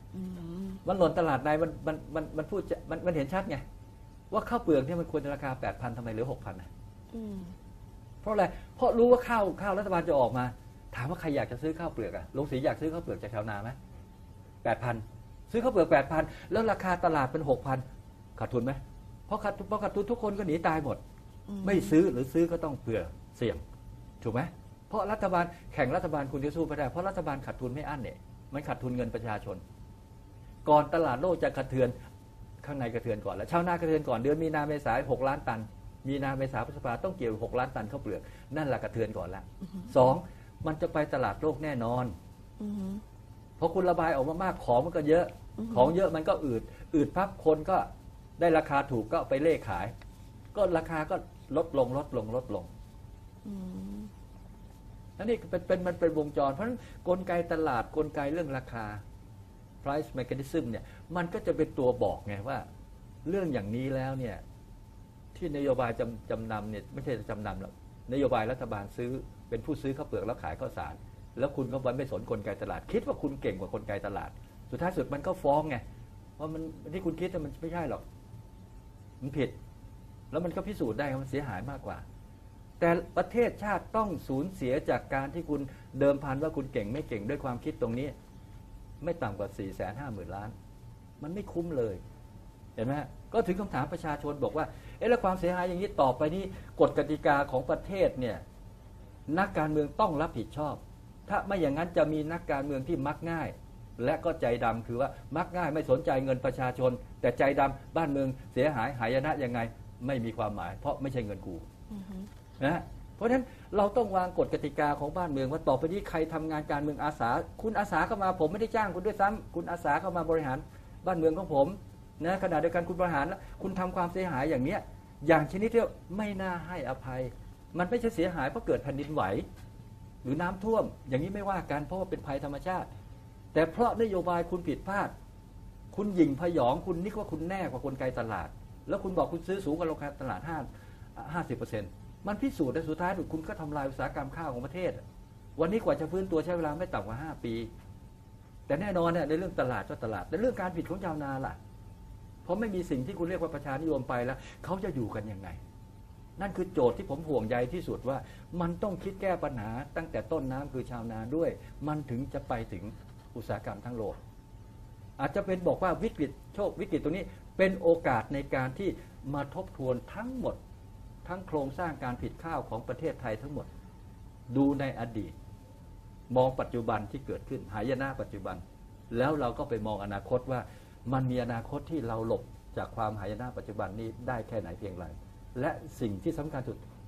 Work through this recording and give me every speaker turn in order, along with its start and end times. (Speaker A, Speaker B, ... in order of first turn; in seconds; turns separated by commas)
Speaker A: 0.1-0.8, Speaker B: 0.8-3.6, Speaker B: 4.3-6.7, Speaker A: 7.1-7.5, Speaker B: 8.2-13.8, Speaker B: 14.6-17.8, Speaker B: 18.4-21.0, Speaker A: 21.5-22.0, Speaker B: 21.6-23.6, Speaker B: 24.2-29.6, Speaker B: 30.6-31.9, Speaker B: 32.6-42.1, Speaker A: 42.6-43.0, Speaker B: 43.6-47.9, Speaker A: 45.6-45.9, Speaker B: 48.4-49.9, Speaker B: 50.5-52.7, Speaker A: 53.4-54.1, Speaker B: 55.2-59.0, Speaker B: 59.8-62.6, Speaker B: 63.2-64.4, Speaker B: 65.3-75.8, Speaker B: 76.4-78.0, Speaker B: 79.2-79.5, Speaker B: 80.3-82.0, Speaker B: 82.8-88.1, Speaker B: 89.0-90.5, Speaker B: 91.2-92.0, Speaker B: 92.8-98.4, Speaker B: 99.3-111.6, Speaker A: 111.9-112.3, Speaker B: 112.6-129.4, Speaker B: 130.2-132.9, Speaker B: 133.5-135.1, Speaker B: 135.9-145.0, Speaker B: 145.6-147.7, Speaker B: 148.7-151.6, Speaker B: 152.4-155.6, Speaker B: 156.4-164.2, Speaker B: 165.2-170.6, Speaker B: 171.2-173.7, Speaker B: 174.5-175.3, Speaker B: 176.3-186.8